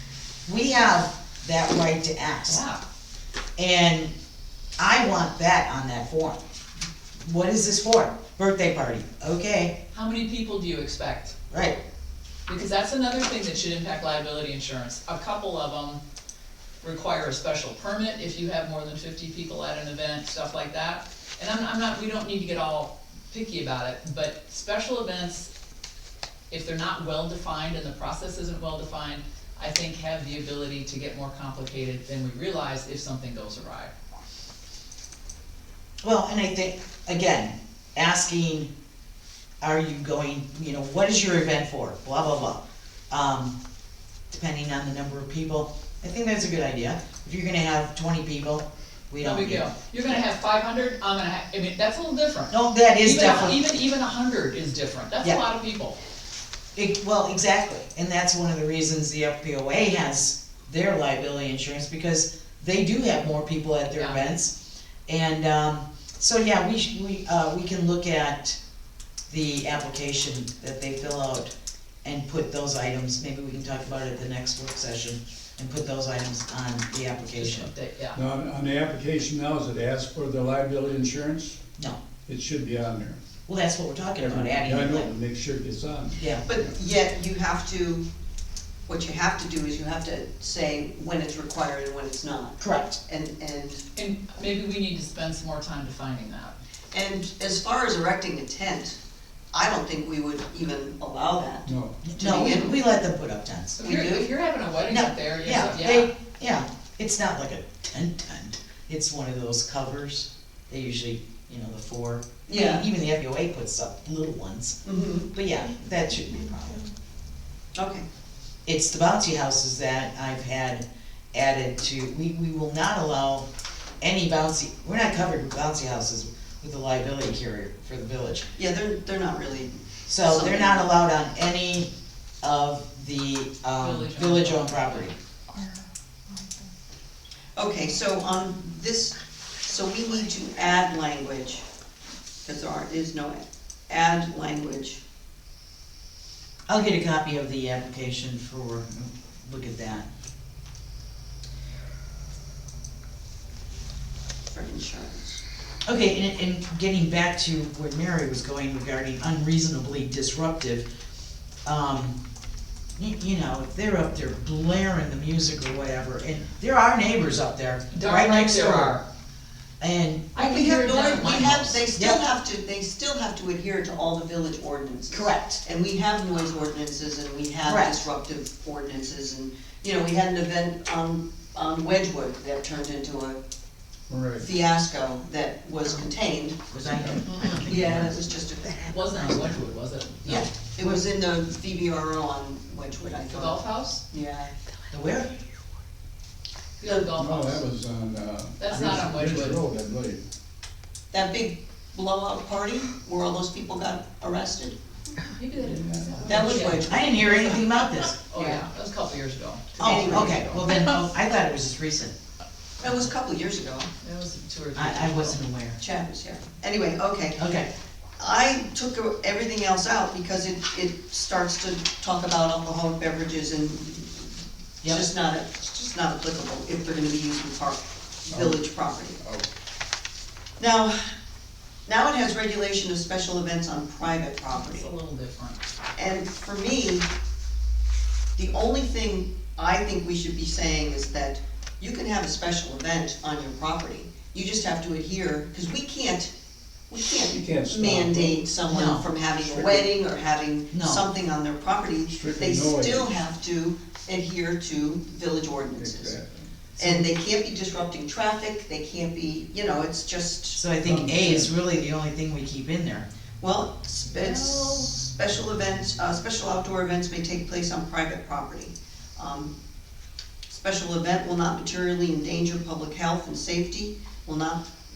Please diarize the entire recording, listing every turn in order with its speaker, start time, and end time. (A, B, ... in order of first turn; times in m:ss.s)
0:00.5-0:02.6 A
0:02.5-0:02.8 B
0:03.6-0:04.1 A
0:04.8-0:06.4 A
0:07.2-0:09.8 A
0:09.9-0:11.4 B
0:11.5-0:11.8 A
0:12.5-0:16.0 B
0:16.8-0:25.5 B
0:26.5-0:33.9 B
0:36.0-0:38.7 A
0:39.6-0:43.6 A
0:44.3-0:49.6 A
0:49.2-0:56.0 B
0:52.5-0:53.6 A
0:56.8-1:08.6 A
1:03.9-1:04.2 B
1:09.3-1:11.5 A
1:12.0-1:17.7 A
1:17.4-1:18.2 B
1:18.1-1:21.6 C
1:22.3-1:23.2 C
1:23.5-1:25.1 A
1:24.2-1:26.7 C
1:26.2-1:26.4 A
1:26.4-1:28.1 D
1:28.9-1:33.8 D
1:32.6-1:33.0 A
1:34.0-1:36.6 B
1:36.9-1:39.0 D
1:39.5-1:42.8 D
1:41.7-1:42.0 C
1:42.0-1:43.8 A
1:43.8-1:44.3 D
1:43.8-1:46.1 B
1:44.9-1:54.8 A
1:52.5-1:52.9 D
1:54.8-1:55.3 D
1:55.3-1:56.9 A
1:57.8-1:58.0 D
1:58.7-2:03.5 A
2:04.0-2:08.5 A
2:08.6-2:10.9 D
2:10.1-2:11.9 A
2:12.4-2:15.2 A
2:13.8-2:15.1 B
2:17.6-2:21.6 D
2:22.4-2:25.0 D
2:26.7-2:30.1 A
2:34.5-2:35.4 D
2:35.8-2:40.9 A
2:41.6-2:42.2 A
2:43.0-2:49.0 A
2:47.9-2:49.0 B
2:49.8-2:50.4 A
2:50.4-2:51.8 B
2:50.4-3:03.4 D
2:52.0-2:52.2 A
2:55.1-2:55.6 A
2:57.6-2:58.0 A
3:04.1-3:04.5 C
3:04.4-3:06.7 D
3:06.7-3:08.2 A
3:06.9-3:07.4 C
3:07.5-3:09.0 D
3:08.9-3:10.4 B
3:09.0-3:09.6 A
3:10.3-3:14.5 D
3:10.3-3:11.0 A
3:13.3-3:14.0 B
3:14.9-3:15.3 A
3:16.8-3:17.6 B
3:17.1-3:20.2 C
3:18.6-3:19.6 B
3:21.1-3:24.8 D
3:25.2-3:27.6 B
3:25.6-3:26.6 C
3:26.3-3:27.8 D
3:26.8-3:28.2 A
3:28.3-3:31.0 B
3:28.3-3:28.6 D
3:29.8-3:30.7 D
3:29.8-3:32.1 A
3:32.8-3:33.9 D
3:34.0-3:35.4 B
3:34.8-3:35.8 A
3:35.8-3:37.6 D
3:37.4-3:37.7 A
3:38.2-3:49.2 D
3:48.3-3:48.6 C
3:49.2-3:49.5 C
3:50.6-3:51.1 D
3:51.9-3:54.9 D
3:54.5-3:55.6 B
3:56.0-3:57.1 D
3:58.4-4:06.3 D
4:06.9-4:16.2 D
4:07.2-4:08.5 C
4:08.7-4:09.1 A
4:09.4-4:09.8 C
4:10.7-4:11.0 A
4:12.1-4:13.2 C
4:15.6-4:16.5 C
4:16.8-4:20.7 D
4:20.6-4:23.1 A
4:20.8-4:21.5 C
4:23.4-4:29.5 D
4:24.2-4:24.8 A
4:30.5-4:34.7 D